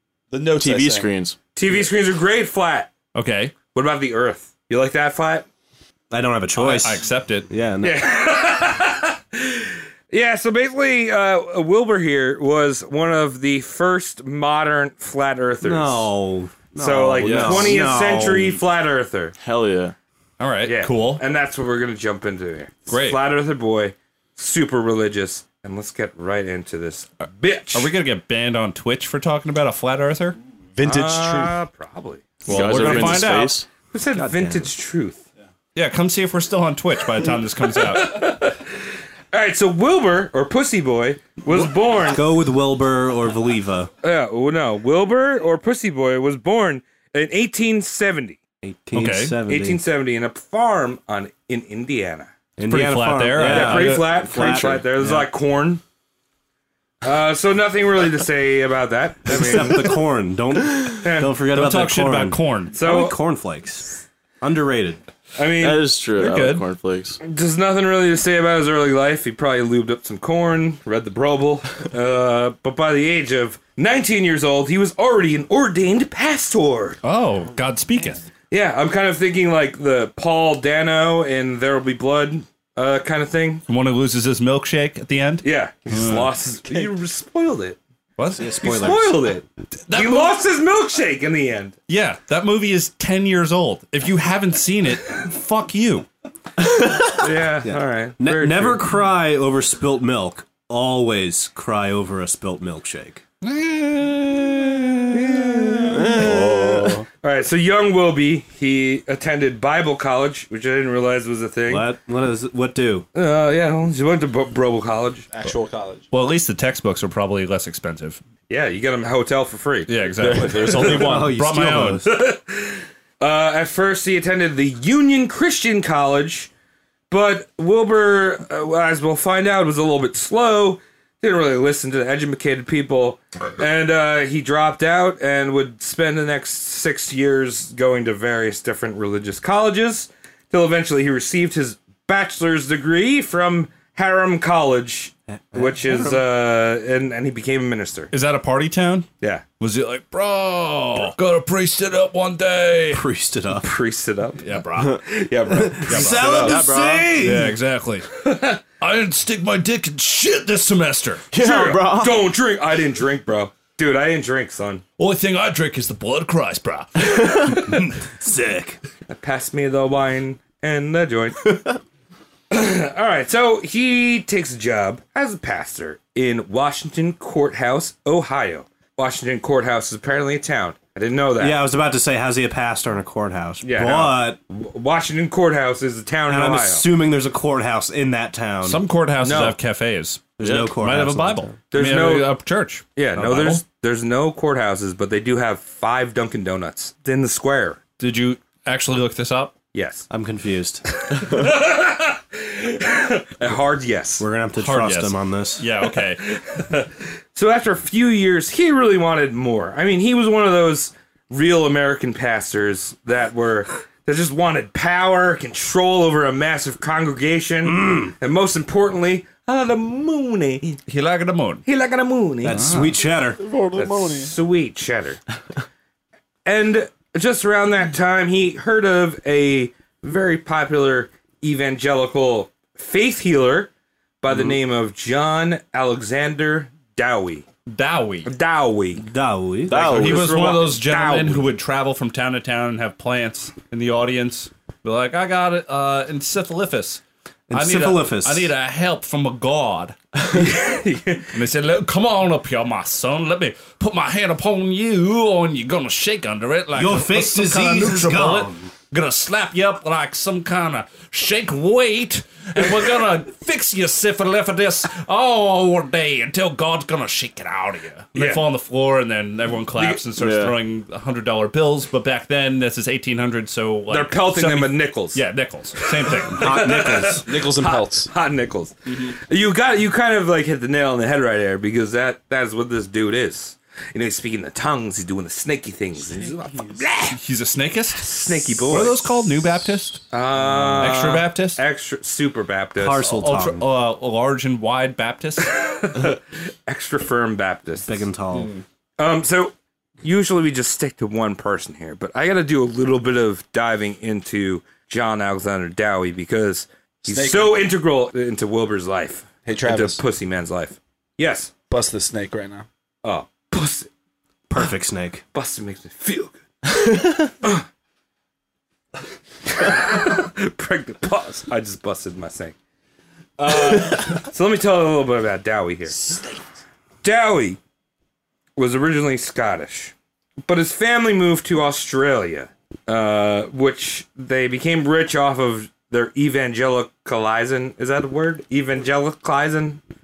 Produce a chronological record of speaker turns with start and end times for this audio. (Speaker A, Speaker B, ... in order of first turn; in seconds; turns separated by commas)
Speaker A: 0.3-1.1, Speaker B: 0.6-1.4, Speaker C: 1.5-2.9, Speaker D: 3.1-3.5, Speaker C: 3.7-5.5, Speaker E: 6.1-8.1, Speaker D: 6.5-7.5, Speaker C: 7.8-16.1, Speaker E: 15.6-18.6, Speaker C: 16.8-19.3, Speaker B: 17.2-17.8, Speaker B: 19.4-19.9, Speaker D: 20.4-21.2, Speaker C: 20.6-27.9, Speaker D: 22.9-23.2, Speaker D: 27.7-30.4, Speaker A: 30.8-31.6, Speaker C: 30.8-33.2, Speaker D: 32.4-33.6, Speaker B: 32.5-33.7, Speaker C: 33.9-35.2, Speaker E: 34.1-34.7, Speaker D: 35.7-38.1, Speaker C: 37.7-38.7, Speaker C: 39.3-42.2, Speaker E: 42.0-43.9, Speaker C: 44.0-48.4, Speaker E: 48.6-49.8, Speaker D: 48.9-49.4, Speaker C: 49.5-52.3, Speaker E: 52.6-55.3, Speaker D: 52.7-54.1, Speaker C: 53.4-55.8, Speaker C: 57.0-60.0, Speaker E: 59.2-65.0, Speaker C: 61.0-61.3, Speaker D: 61.5-62.8, Speaker C: 62.7-63.2, Speaker C: 65.3-65.8, Speaker B: 65.6-67.2, Speaker D: 66.2-66.7, Speaker C: 67.2-77.0, Speaker D: 77.0-78.2, Speaker C: 78.5-83.6, Speaker D: 83.7-86.3, Speaker C: 85.4-87.8, Speaker D: 88.2-88.5, Speaker E: 88.3-89.2, Speaker C: 88.6-91.7, Speaker D: 89.9-90.3, Speaker D: 91.9-96.1, Speaker E: 96.6-103.2, Speaker C: 97.2-98.8, Speaker D: 103.4-105.2, Speaker C: 105.1-106.2, Speaker A: 106.0-107.0, Speaker E: 106.0-107.0, Speaker C: 107.2-111.9, Speaker E: 111.7-113.1, Speaker C: 113.1-115.2, Speaker A: 115.3-116.0, Speaker D: 116.1-118.2, Speaker C: 118.5-119.9, Speaker D: 119.9-122.0, Speaker A: 120.2-121.3, Speaker E: 120.8-122.0, Speaker C: 122.0-126.5, Speaker C: 127.1-148.1, Speaker E: 145.3-146.3, Speaker D: 148.1-149.1, Speaker D: 149.6-153.0, Speaker E: 152.9-153.7, Speaker C: 153.6-156.6, Speaker D: 154.4-155.0, Speaker E: 155.5-157.6, Speaker D: 155.9-156.5, Speaker B: 156.2-157.1, Speaker D: 157.2-158.1, Speaker C: 158.2-158.6, Speaker D: 158.8-161.2, Speaker B: 161.3-162.2, Speaker C: 161.3-164.8, Speaker D: 165.0-168.0, Speaker E: 167.4-168.8, Speaker C: 169.1-171.6, Speaker C: 172.5-181.6, Speaker E: 181.4-184.4, Speaker C: 183.6-186.9, Speaker E: 186.3-188.8, Speaker D: 188.6-193.6, Speaker C: 189.2-189.6, Speaker E: 190.4-191.6, Speaker B: 190.4-190.7, Speaker C: 191.7-192.3, Speaker C: 192.9-197.8, Speaker D: 198.0-199.5, Speaker C: 199.7-200.1, Speaker E: 200.1-200.9, Speaker C: 201.1-204.2, Speaker E: 204.2-205.6, Speaker D: 204.6-206.2, Speaker C: 206.2-220.8, Speaker E: 217.6-218.1, Speaker D: 220.9-221.6, Speaker C: 221.7-222.6, Speaker E: 222.4-223.4, Speaker D: 222.5-222.9, Speaker A: 223.3-224.3, Speaker C: 223.7-225.2, Speaker C: 226.4-233.7, Speaker C: 234.2-237.4, Speaker D: 237.7-238.3, Speaker C: 238.2-239.0, Speaker E: 238.9-239.9, Speaker B: 239.7-240.4, Speaker C: 239.7-241.5, Speaker D: 239.9-250.0, Speaker E: 247.5-248.5, Speaker C: 250.3-251.3, Speaker D: 251.3-276.6, Speaker E: 256.7-258.7, Speaker C: 268.1-268.4, Speaker C: 269.7-270.0, Speaker B: 270.2-270.5, Speaker C: 273.9-275.2, Speaker C: 275.8-287.2, Speaker E: 276.4-277.3, Speaker A: 277.2-278.1, Speaker D: 278.9-279.1, Speaker A: 286.1-286.8, Speaker D: 287.1-290.0, Speaker C: 287.9-289.0, Speaker C: 290.1-293.1, Speaker E: 290.4-291.0, Speaker D: 290.8-291.6, Speaker E: 292.8-293.6, Speaker D: 293.0-295.5, Speaker C: 295.4-298.0, Speaker E: 297.8-298.5, Speaker D: 298.3-298.6, Speaker C: 299.0-311.5, Speaker A: 307.1-307.6, Speaker A: 309.4-310.0, Speaker A: 311.7-312.6, Speaker C: 313.0-313.9, Speaker E: 314.5-315.2, Speaker C: 315.3-316.4, Speaker C: 317.4-317.7, Speaker C: 319.5-322.5, Speaker C: 323.4-326.0, Speaker C: 327.0-327.6, Speaker C: 328.6-329.9, Speaker C: 330.4-339.8